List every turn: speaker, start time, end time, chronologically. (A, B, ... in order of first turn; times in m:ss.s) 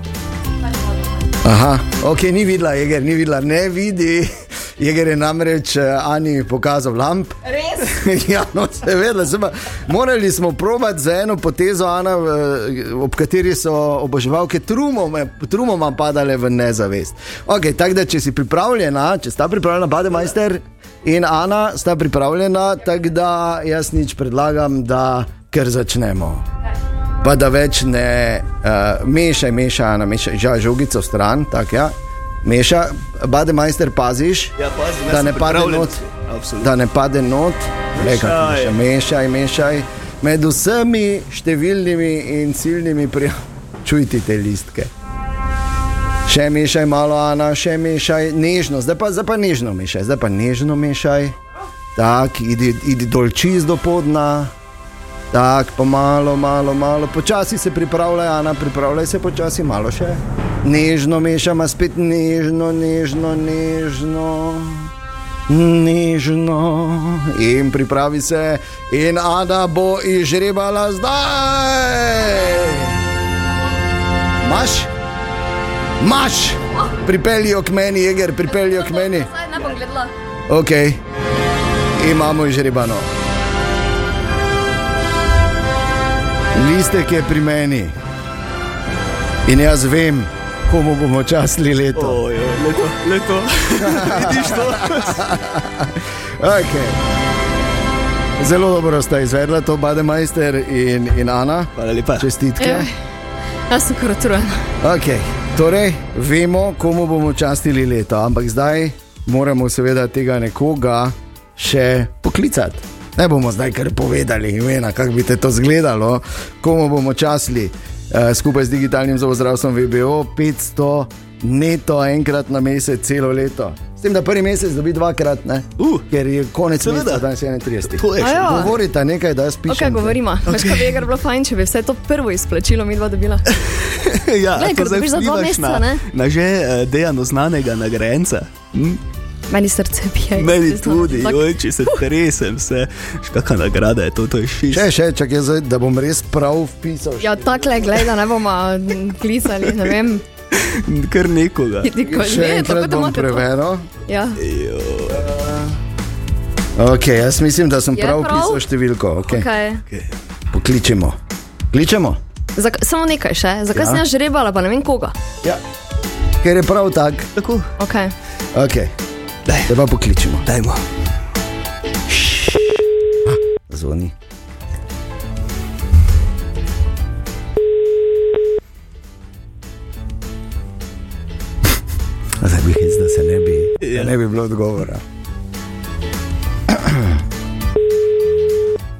0:01.4-0:26.4 A
0:27.2-0:34.5 A
0:34.6-0:36.7 B
0:35.1-0:36.0 A
0:36.6-0:44.9 A
0:37.9-0:38.8 B
0:46.3-0:51.4 A
0:52.0-0:54.5 A
0:55.3-1:04.9 A
1:05.5-1:13.0 A
1:14.4-1:14.9 A
1:16.0-1:19.3 A
1:18.5-1:20.1 C
1:20.5-1:21.0 A
1:22.0-1:23.1 A
1:26.5-1:27.9 A
1:29.4-1:32.2 A
1:32.0-1:35.2 B
1:33.8-1:37.0 A
1:38.4-1:42.9 A
1:41.8-1:42.3 B
1:42.6-1:42.9 C
1:43.7-1:44.6 C
1:44.8-2:10.2 A
2:05.8-2:06.0 B
2:06.8-2:07.2 B
2:07.9-2:08.7 B
2:08.2-2:08.7 C
2:09.7-2:13.4 C
2:10.5-2:11.0 B
2:13.5-2:19.0 B
2:14.6-2:16.0 C
2:19.5-2:22.0 C
2:20.4-2:24.9 B
2:24.7-2:27.8 A
2:27.2-2:30.2 C
2:30.5-2:31.9 B
2:31.8-2:33.4 C
2:32.0-2:33.9 A
2:34.1-2:34.4 C
2:34.4-2:35.2 B
2:35.1-2:35.7 A
2:36.8-2:39.5 A
2:37.9-2:38.6 C
2:39.2-2:39.8 C
2:40.5-2:41.2 A
2:41.7-2:42.2 A
2:42.6-2:45.1 C
2:43.7-2:44.0 A
2:46.4-2:47.3 A
2:47.4-2:47.7 B
2:47.8-2:48.1 C
2:48.5-2:48.9 A
2:49.5-2:49.7 B
2:49.6-2:50.4 A
2:50.4-2:50.8 B
2:52.2-2:52.6 B
2:53.2-2:54.1 A
3:02.4-3:05.0 A
3:03.8-3:04.1 B
3:06.7-3:07.2 A